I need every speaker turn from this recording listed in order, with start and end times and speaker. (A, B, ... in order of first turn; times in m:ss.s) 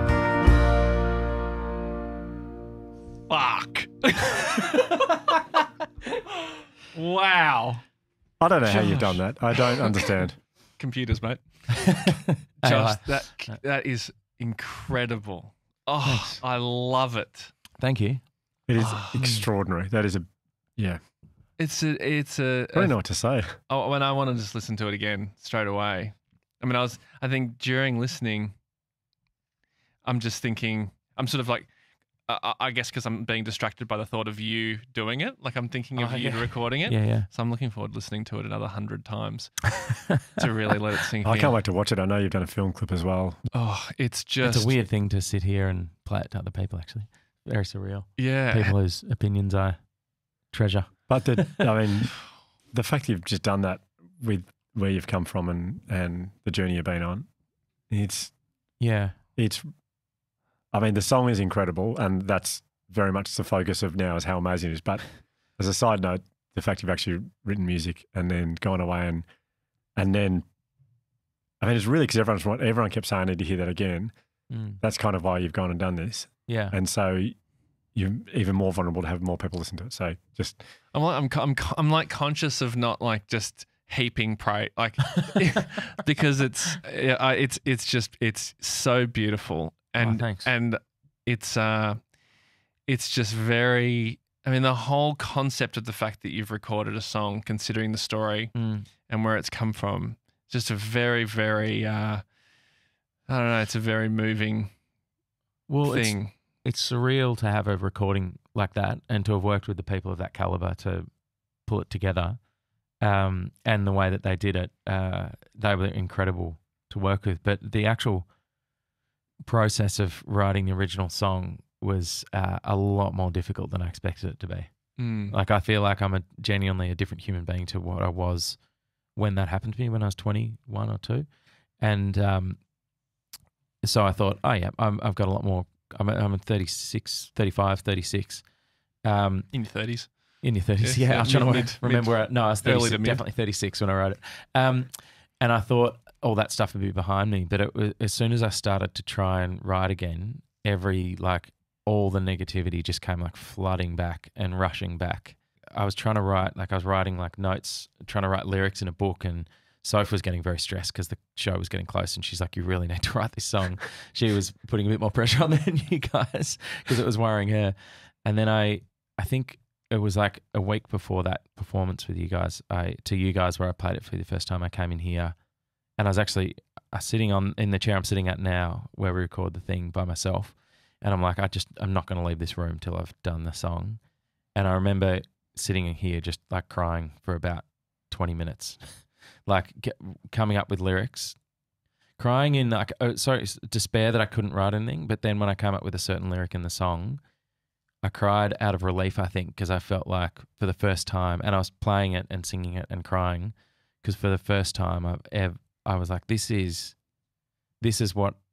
0:03.3-0:05.4 A
0:06.5-0:07.8 A
0:08.4-0:10.4 B
0:08.7-0:10.2 A
0:10.8-0:11.9 A
0:11.8-0:13.1 C
0:12.6-0:17.5 A
0:16.0-0:16.4 C
0:17.8-0:18.2 C
0:18.7-0:21.0 B
0:18.8-0:19.4 A
0:21.6-0:23.0 A
0:22.7-0:23.6 B
0:23.7-0:28.6 A
0:30.0-0:31.7 A
0:32.2-0:41.5 A
0:36.0-0:37.3 C
0:41.2-0:43.4 B
0:43.5-0:44.8 A
0:44.4-0:49.8 C
0:48.2-0:48.8 A
0:50.5-0:51.5 C
0:51.1-0:52.2 B
0:52.7-0:57.3 B
0:57.9-0:58.4 B
0:58.8-0:59.2 C
0:59.4-0:59.7 B
1:00.7-1:09.2 B
1:10.0-1:10.5 B
1:11.6-1:14.1 B
1:14.5-1:14.8 C
1:14.8-1:17.4 B
1:16.5-1:16.8 C
1:17.9-1:20.6 B
1:20.9-1:32.1 A
1:30.0-1:30.5 C
1:32.9-1:42.2 A
1:38.6-1:38.9 C
1:43.3-1:44.7 A
1:45.7-1:51.1 C
1:45.8-1:46.3 A
1:51.6-1:52.4 C
1:53.0-1:58.3 C
1:59.4-2:08.6 C
2:05.0-2:05.4 A
2:09.2-2:11.2 C
2:11.8-2:12.6 C
2:13.8-2:18.4 C
2:19.0-2:19.6 C
2:19.5-2:23.2 A
2:20.4-2:55.3 C
2:56.0-3:04.0 C
3:04.6-3:11.4 C
3:12.2-3:17.2 C
3:18.0-3:27.0 C
3:27.8-3:28.4 C